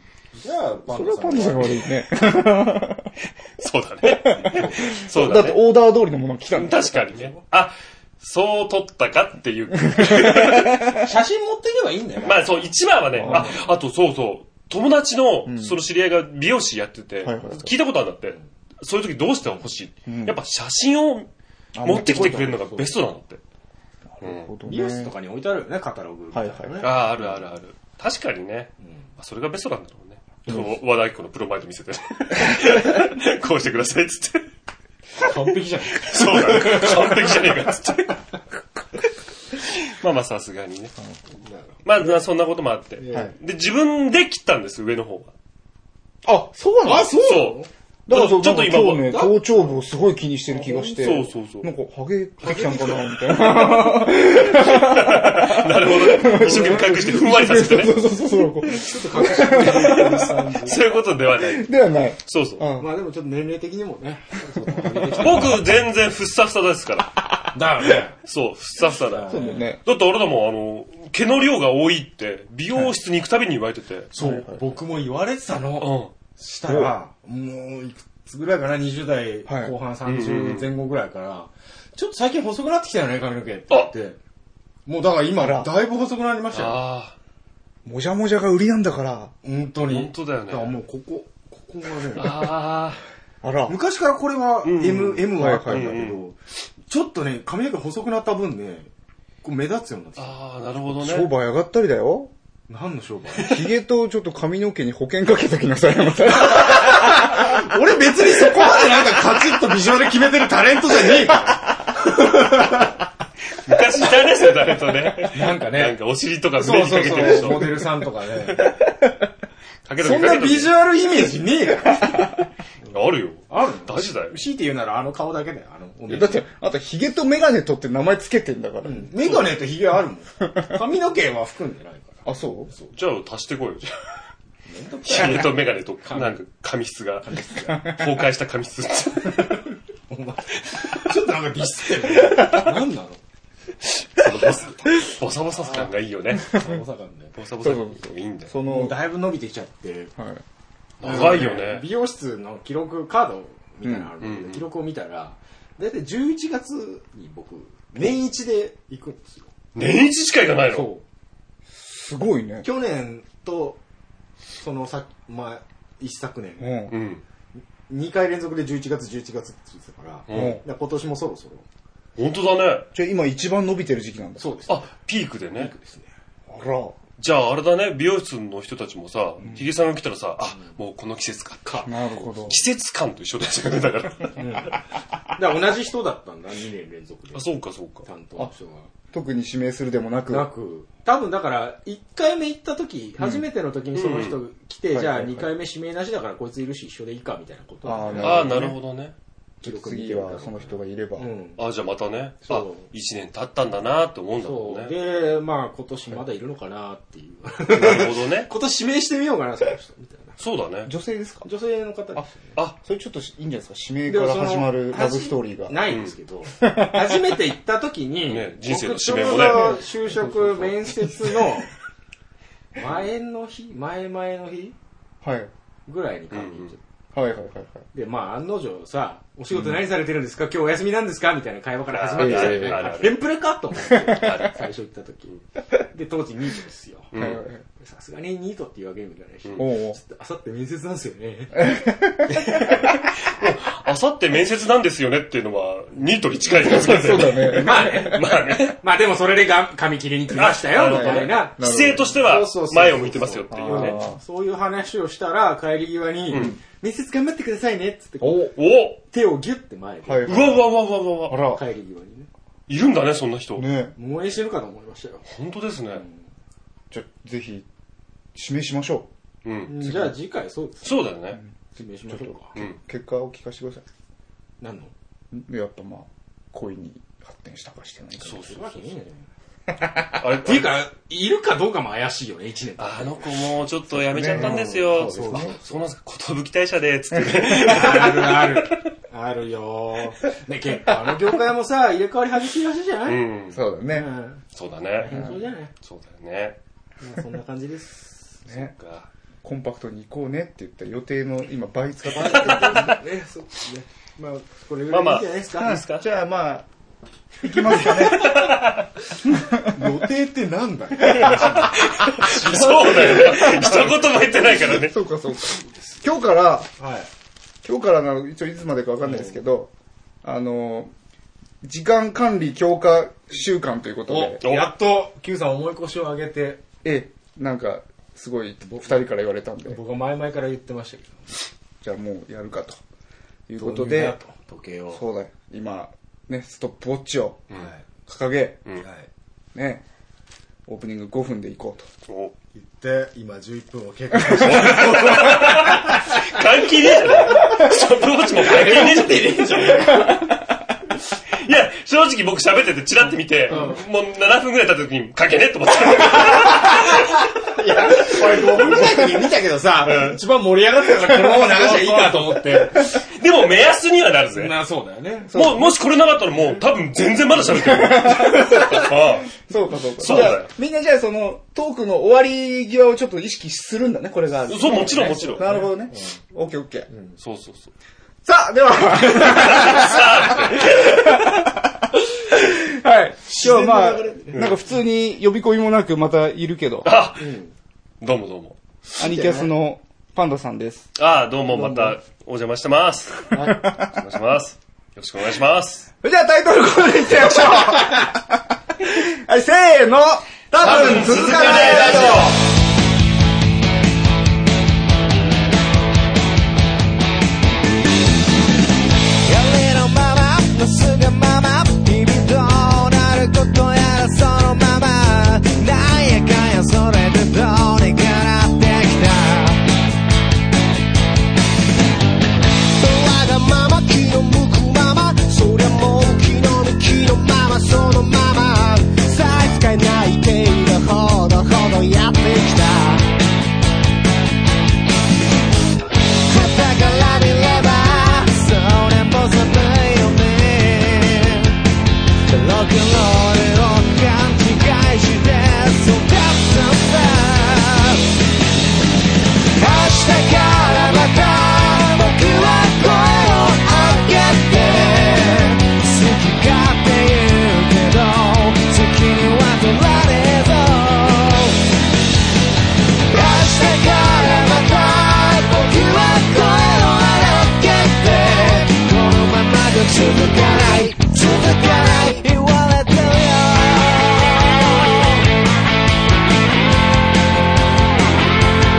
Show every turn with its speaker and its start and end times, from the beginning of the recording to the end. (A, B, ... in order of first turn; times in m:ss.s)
0:00.4-0:01.9 A
0:00.9-0:03.1 B
0:03.6-0:05.6 C
0:04.0-0:07.0 B
0:04.5-0:04.8 A
0:06.6-0:11.0 C
0:07.1-0:07.4 A
0:09.9-0:10.8 B
0:11.0-0:12.7 A
0:12.2-0:21.3 C
0:13.2-0:13.6 B
0:13.2-0:13.6 A
0:15.5-0:15.8 B
0:17.2-0:17.8 B
0:20.1-0:20.4 B
0:21.8-0:22.6 B
0:21.8-0:23.4 C
0:21.9-0:22.9 A
0:24.1-0:25.1 B
0:24.2-0:24.5 C
0:24.7-0:27.0 A
0:26.3-0:26.9 B
0:26.8-0:34.5 C
0:35.2-0:37.5 A
0:36.0-0:38.2 C
0:39.8-0:41.0 C
0:41.4-0:42.1 A
0:41.8-0:45.3 C
0:43.0-0:43.3 A
0:46.2-0:47.4 B
0:46.8-0:47.7 A
0:46.9-0:49.2 C
0:48.1-1:00.4 B
0:49.1-0:49.8 A
0:50.5-0:51.1 A
0:51.0-0:51.7 C
0:52.4-0:53.1 A
0:54.3-0:58.0 C
0:56.5-0:56.9 A
0:58.7-1:00.8 A
0:59.2-1:00.0 C
1:00.6-1:02.7 C
1:01.4-1:02.9 B
1:02.8-1:05.6 A
1:04.8-1:05.2 B
1:05.2-1:07.4 C
1:07.5-1:08.2 A
1:08.2-1:14.1 C
1:09.0-1:09.7 A
1:09.3-1:09.8 B
1:14.1-1:24.2 A
1:14.2-1:14.6 B
1:15.8-1:16.1 C
1:16.7-1:16.9 B
1:19.5-1:19.7 B
1:20.0-1:20.7 C
1:24.9-1:26.8 A
1:25.4-1:25.7 B
1:26.5-1:27.2 C
1:27.8-1:29.3 B
1:29.4-1:32.6 A
1:29.9-1:30.8 C
1:32.2-1:33.0 C
1:33.4-1:33.8 B
1:33.7-1:36.4 A
1:34.6-1:36.3 C
1:35.4-1:36.1 B
1:36.9-1:38.9 A
1:39.4-1:40.4 A
1:40.2-1:41.3 C
1:40.9-1:42.3 B
1:42.7-1:43.6 A
1:43.4-1:47.6 B
1:46.5-1:52.9 A
1:53.6-1:58.0 C
1:55.2-1:56.0 A
1:56.6-1:58.7 A
1:56.7-1:57.8 B
1:59.9-2:00.8 C
2:00.0-2:02.4 A
2:02.9-2:04.4 C
2:03.5-2:06.5 A
2:06.1-2:09.2 B
2:08.8-2:12.9 A
2:12.2-2:12.7 B
2:12.9-2:13.9 C
2:14.7-2:16.4 A
2:15.0-2:19.6 C
2:17.2-2:18.0 A
2:20.1-2:23.2 A
2:24.1-2:26.7 C
2:25.4-2:27.4 A
2:27.4-2:28.6 C
2:27.6-2:29.0 B
2:28.6-2:30.2 A
2:31.0-2:31.9 C
2:31.0-2:39.5 A
2:33.8-2:34.1 B
2:34.2-2:34.7 C
2:39.8-2:40.9 C
2:40.7-2:41.0 A
2:41.8-2:42.7 B
2:42.6-2:43.8 A
2:44.6-2:46.8 A
2:46.6-2:47.0 B
2:46.9-2:47.2 C
2:47.9-2:51.6 A
2:50.3-2:50.6 C
2:50.3-2:50.6 B
2:52.2-2:52.9 C
2:53.0-2:54.6 B
2:54.4-2:54.8 A
2:54.7-2:55.7 C
2:55.6-2:56.1 A
2:56.5-2:57.0 B
2:57.2-3:04.8 C
3:01.8-3:02.6 B
3:04.4-3:04.8 A
3:05.4-3:08.9 A
3:07.3-3:08.1 C
3:09.1-3:10.5 B
3:10.3-3:18.7 A
3:13.2-3:13.4 B
3:14.0-3:14.4 C
3:14.9-3:15.5 B
3:17.8-3:18.8 B
3:18.2-3:19.2 C
3:19.6-3:21.3 B
3:19.6-3:21.6 A
3:21.6-3:24.9 C
3:22.4-3:22.9 A
3:24.4-3:30.4 A
3:27.7-3:28.5 C
3:30.4-3:30.9 C
3:30.9-3:31.5 B
3:31.4-3:32.6 A
3:32.8-3:35.9 B
3:34.1-3:41.7 A
3:36.6-3:37.1 B
3:38.3-3:39.8 C
3:39.3-3:40.7 B
3:42.8-3:44.8 A
3:45.2-3:45.5 B
3:45.9-3:46.8 A
3:46.3-3:46.8 C
3:47.1-3:47.8 B
3:47.9-3:57.1 A
3:51.9-3:53.3 C
3:52.2-3:52.9 B
3:53.9-3:54.6 C
3:57.1-3:57.4 C
3:57.1-3:57.6 B
3:57.8-4:02.5 A
3:59.6-4:00.0 B
4:01.6-4:02.4 B
4:03.2-4:08.8 C
4:06.5-4:08.3 B
4:07.5-4:11.6 A
4:10.3-4:14.0 C
4:10.8-4:12.3 B
4:12.2-4:18.6 A
4:13.5-4:14.2 B
4:16.3-4:16.6 C
4:16.3-4:16.6 B
4:18.2-4:18.5 B
4:18.6-4:19.0 C
4:19.1-4:20.6 A
4:20.0-4:20.7 B
4:20.3-4:21.4 C
4:21.3-4:21.6 B
4:21.5-4:22.3 A
4:22.7-4:23.7 C
4:23.6-4:24.0 B
4:24.0-4:25.2 A
4:25.3-4:26.0 C
4:26.9-4:27.7 B
4:28.4-4:29.1 B
4:29.4-4:29.8 C
4:29.7-4:31.1 A
4:29.8-4:30.1 B
4:30.8-4:31.4 C
4:31.3-4:33.8 B
4:31.8-4:32.6 A
4:34.6-4:34.9 A
4:35.3-4:38.5 B
4:38.2-4:38.9 C
4:38.2-4:39.3 A
4:40.1-4:40.8 C
4:40.4-4:43.4 A
4:42.8-4:48.8 C
4:43.9-4:45.5 B
4:44.3-4:45.8 A
4:47.5-4:53.2 A
4:53.0-4:53.6 C
4:53.5-4:54.1 B
4:53.9-4:54.4 A
4:54.6-4:56.6 C
4:55.0-4:55.7 A
4:57.0-4:58.5 A
4:58.5-4:59.1 C
4:59.4-5:03.0 B
5:02.2-5:05.8 A
5:02.4-5:02.9 C
5:04.9-5:06.1 C
5:05.6-5:06.7 B
5:07.4-5:08.5 B
5:07.7-5:08.9 C
5:09.3-5:09.9 B
5:09.6-5:13.6 A
5:11.1-5:15.0 C
5:13.2-5:16.7 B
5:16.8-5:17.1 A
5:17.6-5:19.7 B
5:19.0-5:19.4 A
5:20.2-5:20.9 B
5:21.6-5:24.4 B
5:24.1-5:26.6 A
5:24.4-5:24.7 C
5:26.8-5:29.8 B
5:28.7-5:29.0 A
5:29.7-5:31.4 A
5:31.8-5:32.8 B
5:33.5-5:34.2 B
5:33.6-5:35.0 A
5:34.9-5:37.4 B
5:37.5-5:37.8 A
5:38.1-5:38.7 B
5:38.8-5:39.1 A
5:39.6-5:39.8 B
5:40.7-5:41.9 B
5:42.1-5:42.3 C
5:42.6-5:46.2 A
5:44.3-5:50.1 C
5:48.4-5:50.2 A
5:51.4-5:57.2 C
5:53.5-5:53.8 A
5:56.5-5:56.9 A
5:57.5-6:03.0 A
5:58.0-5:59.0 C
5:59.8-6:00.2 C
6:01.2-6:04.6 C
6:04.3-6:05.4 A
6:05.3-6:05.8 B
6:05.3-6:09.4 C
6:07.5-6:16.9 B
6:10.0-6:10.5 C
6:14.5-6:15.5 C
6:15.0-6:16.2 A
6:17.2-6:17.7 C
6:18.2-6:21.7 B
6:19.2-6:21.0 C
6:22.3-6:27.0 B
6:23.2-6:24.5 A
6:24.3-6:24.6 C
6:26.8-6:27.3 C
6:27.2-6:27.5 A
6:28.0-6:28.6 C
6:29.0-6:29.5 A
6:29.0-6:30.9 B
6:31.0-6:35.9 C
6:31.6-6:32.0 A
6:33.3-6:33.7 A
6:33.6-6:33.9 B
6:36.0-6:42.3 B
6:40.6-6:42.4 C
6:49.3-6:50.7 D
6:51.6-6:55.6 D
6:56.3-6:59.5 D
7:02.8-7:13.0 D
7:16.3-7:20.4 D
7:22.3-7:27.6 D
7:29.6-7:40.9 D
7:43.1-7:53.9 D